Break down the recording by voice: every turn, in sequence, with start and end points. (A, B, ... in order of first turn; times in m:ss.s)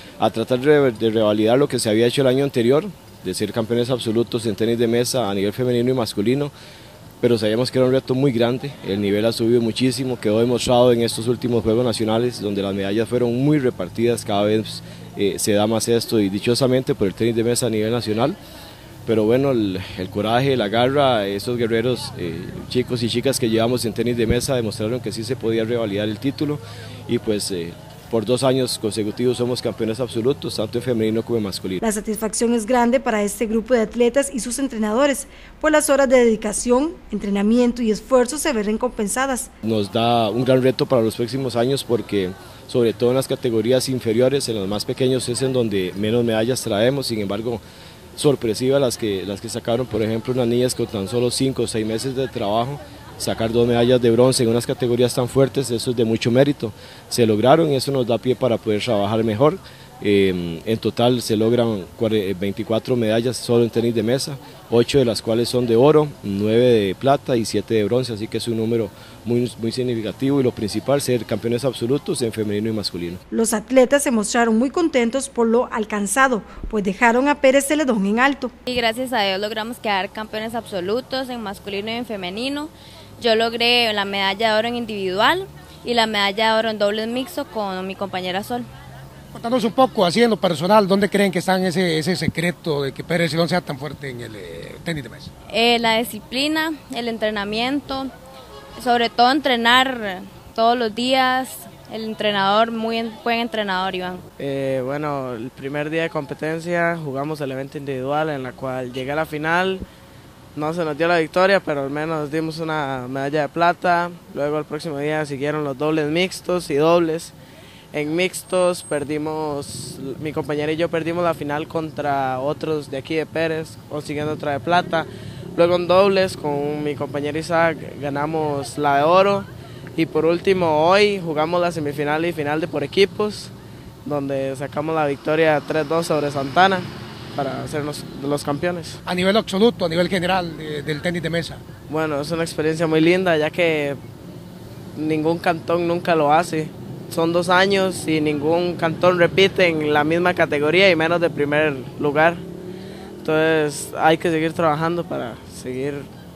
0:00.2-0:06.5 A
0:07.2-0:18.4 A
0:19.0-0:31.8 A
0:31.8-0:39.5 B
0:39.6-0:47.6 A
0:48.2-1:13.2 A
1:13.3-1:18.5 B
1:18.7-1:28.7 C
1:29.3-1:35.3 D
1:35.5-1:38.1 C
1:38.8-1:44.2 C
1:44.4-1:49.8 E
1:50.5-1:57.3 E
1:57.9-2:13.5 E
2:14.0-2:19.0 E
2:19.1-2:21.6 D
2:21.9-2:24.0 E
2:25.0-2:32.4 E
2:33.2-2:36.1 E